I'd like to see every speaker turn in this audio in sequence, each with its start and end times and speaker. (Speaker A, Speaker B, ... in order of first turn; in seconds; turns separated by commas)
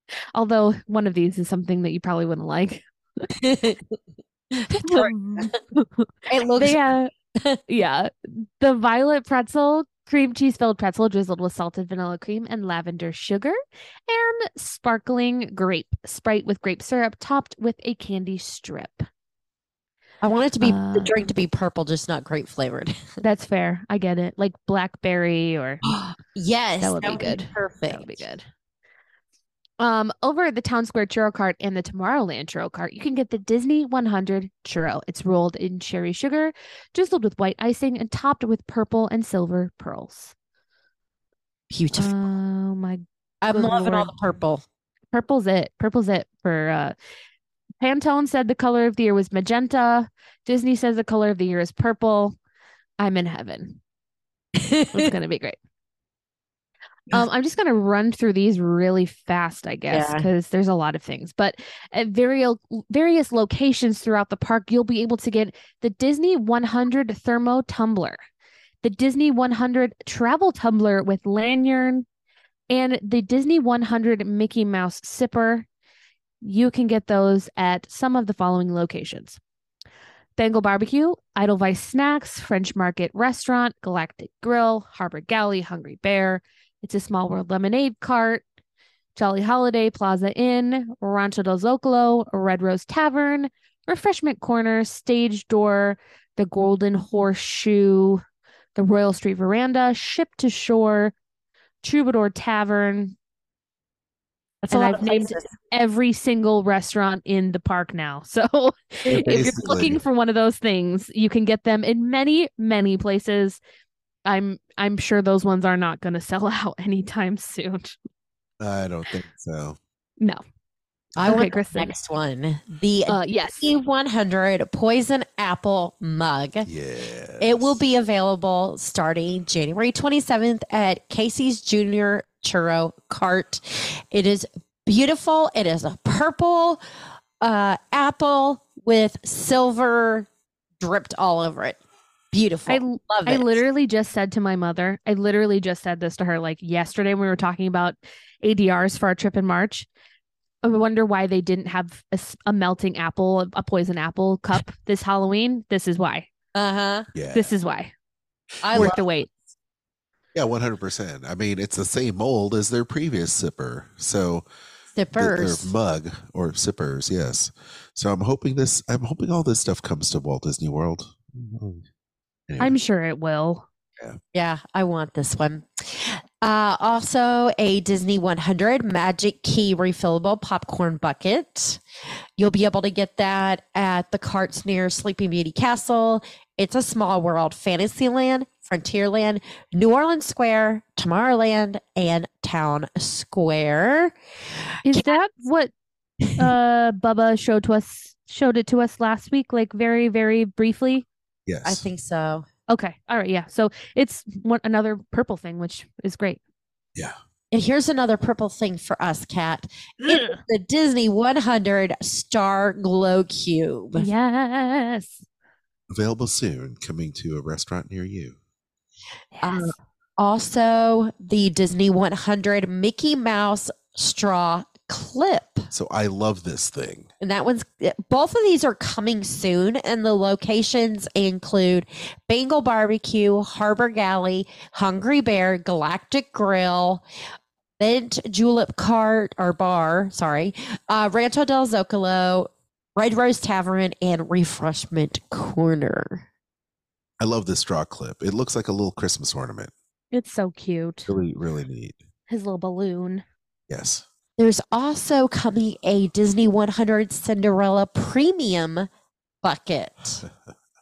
Speaker A: 0.3-3.3, Speaker B: 3.4-4.0, Speaker B: 4.6-5.5, Speaker A: 4.7-7.1, Speaker B: 6.3-6.8, Speaker A: 7.7-13.6, Speaker A: 14.1-19.1, Speaker B: 20.2-23.0, Speaker A: 20.6-21.3, Speaker A: 23.2-25.8, Speaker B: 25.8-28.2, Speaker A: 26.8-28.4, Speaker A: 29.8-40.3, Speaker B: 41.7-42.1, Speaker A: 41.9-44.1, Speaker B: 43.4-44.6, Speaker A: 45.1-46.9, Speaker A: 47.8-52.4, Speaker A: 53.0-53.8, Speaker B: 54.6-55.1, Speaker A: 54.9-55.6, Speaker A: 57.1-68.2, Speaker B: 59.9-60.3, Speaker A: 68.8-72.1, Speaker A: 72.7-75.7, Speaker A: 76.4-79.4, Speaker A: 80.4-88.4, Speaker A: 89.2-98.2, Speaker A: 98.8-101.1, Speaker A: 101.8-103.2, Speaker A: 104.7-113.6, Speaker B: 104.7-105.5, Speaker C: 109.1-110.0, Speaker A: 114.3-118.0, Speaker C: 118.6-119.8, Speaker B: 121.2-126.7, Speaker A: 121.2-121.9, Speaker A: 123.1-123.7, Speaker C: 126.7-127.8, Speaker B: 127.4-136.8, Speaker B: 137.4-140.3, Speaker B: 140.8-141.8, Speaker B: 142.3-143.6, Speaker A: 142.7-149.9, Speaker A: 150.6-156.3, Speaker B: 156.5-157.1, Speaker C: 157.2-157.5, Speaker A: 157.3-157.9, Speaker B: 158.6-159.0, Speaker C: 158.7-159.0, Speaker A: 158.7-159.3, Speaker C: 160.3-164.4, Speaker B: 164.9-165.7, Speaker C: 165.2-171.8, Speaker C: 172.5-172.8, Speaker A: 172.6-173.7, Speaker B: 174.3-181.8, Speaker B: 182.4-194.2, Speaker B: 194.8-195.2, Speaker A: 194.8-195.7, Speaker B: 196.2-196.5, Speaker A: 196.4-201.1, Speaker C: 201.5-201.8, Speaker B: 201.6-202.5, Speaker A: 202.7-206.4, Speaker B: 207.5-214.1, Speaker A: 210.0-210.4, Speaker A: 213.9-215.2, Speaker C: 215.9-218.4, Speaker A: 219.3-219.8, Speaker B: 219.4-225.7, Speaker C: 225.7-227.1, Speaker B: 227.2-237.0, Speaker B: 237.8-246.3, Speaker C: 247.2-249.7, Speaker A: 250.1-251.1, Speaker C: 251.1-252.0, Speaker A: 252.3-253.2, Speaker C: 253.7-254.0, Speaker B: 254.4-258.9, Speaker B: 259.4-260.2